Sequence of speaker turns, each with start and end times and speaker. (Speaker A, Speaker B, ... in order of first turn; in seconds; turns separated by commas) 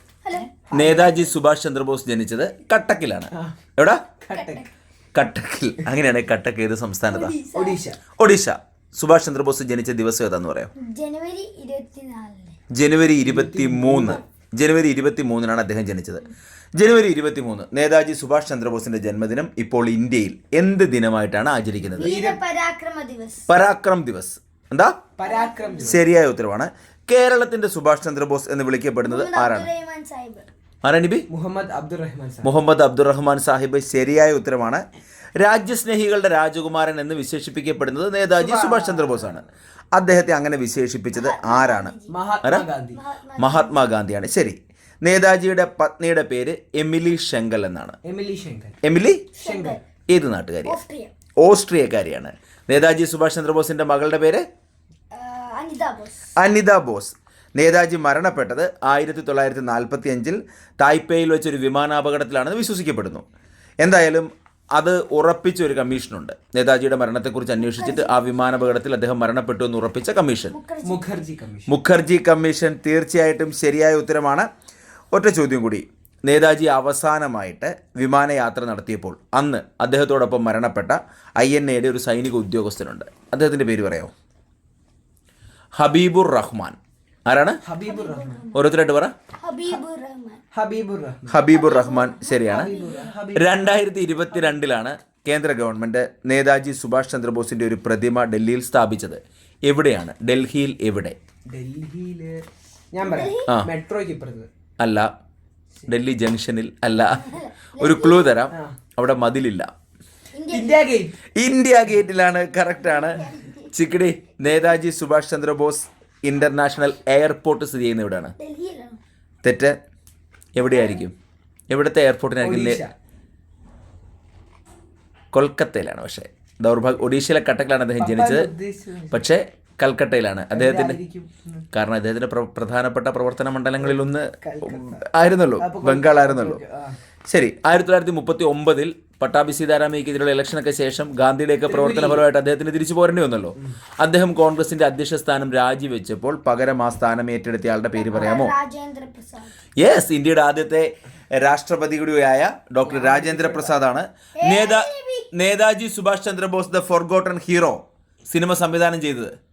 Speaker A: 0.2-0.5, Speaker B: 0.7-1.2, Speaker C: 0.7-4.1, Speaker B: 4.2-4.7, Speaker A: 4.3-4.7, Speaker C: 5.1-7.3, Speaker A: 7.1-7.8, Speaker B: 7.5-8.0, Speaker C: 8.2-10.7, Speaker A: 10.8-12.6, Speaker C: 12.7-22.1, Speaker B: 13.2-14.2, Speaker B: 21.9-22.4, Speaker A: 22.0-23.4, Speaker C: 23.5-25.0, Speaker B: 25.2-26.0, Speaker A: 25.2-26.0, Speaker C: 25.8-29.7, Speaker A: 29.0-30.5, Speaker C: 30.8-31.2, Speaker B: 31.3-32.5, Speaker C: 32.4-34.8, Speaker C: 35.4-42.6, Speaker B: 38.3-39.4, Speaker A: 41.1-42.1, Speaker B: 42.1-43.0, Speaker A: 42.9-43.8, Speaker C: 43.4-48.0, Speaker B: 48.0-48.8, Speaker C: 48.8-49.3, Speaker A: 49.3-49.8, Speaker B: 49.4-49.8, Speaker C: 50.1-50.8, Speaker A: 50.6-51.1, Speaker C: 51.4-54.4, Speaker A: 55.1-56.3, Speaker C: 56.4-63.2, Speaker C: 63.8-70.5, Speaker A: 67.6-68.2, Speaker A: 70.5-71.2, Speaker B: 70.8-71.7, Speaker C: 71.7-74.5, Speaker C: 75.1-84.1, Speaker C: 85.8-87.6, Speaker B: 87.6-88.4, Speaker A: 87.8-88.7, Speaker C: 88.5-89.1, Speaker A: 89.4-90.4, Speaker B: 90.5-91.4, Speaker C: 91.3-92.7, Speaker A: 91.5-93.1, Speaker B: 92.5-93.7, Speaker C: 93.3-101.2, Speaker B: 94.3-94.6, Speaker B: 101.5-104.5, Speaker A: 103.0-103.5, Speaker C: 104.8-105.1, Speaker C: 105.9-109.7, Speaker A: 107.1-108.3, Speaker B: 108.5-108.8, Speaker A: 110.3-110.8, Speaker B: 110.5-111.2, Speaker C: 111.4-118.3, Speaker A: 112.8-113.7, Speaker A: 118.4-119.0, Speaker C: 119.4-119.8, Speaker C: 120.5-121.1, Speaker A: 120.6-121.0, Speaker C: 121.7-122.8, Speaker B: 122.4-122.9, Speaker C: 125.3-128.5, Speaker B: 128.0-129.2, Speaker C: 129.1-131.0, Speaker B: 130.5-131.6, Speaker C: 131.7-136.6, Speaker B: 133.8-135.1, Speaker B: 135.6-136.9, Speaker C: 137.3-148.5, Speaker B: 141.6-142.2, Speaker A: 147.9-149.6, Speaker C: 149.8-159.3, Speaker B: 152.8-153.8, Speaker A: 154.4-155.3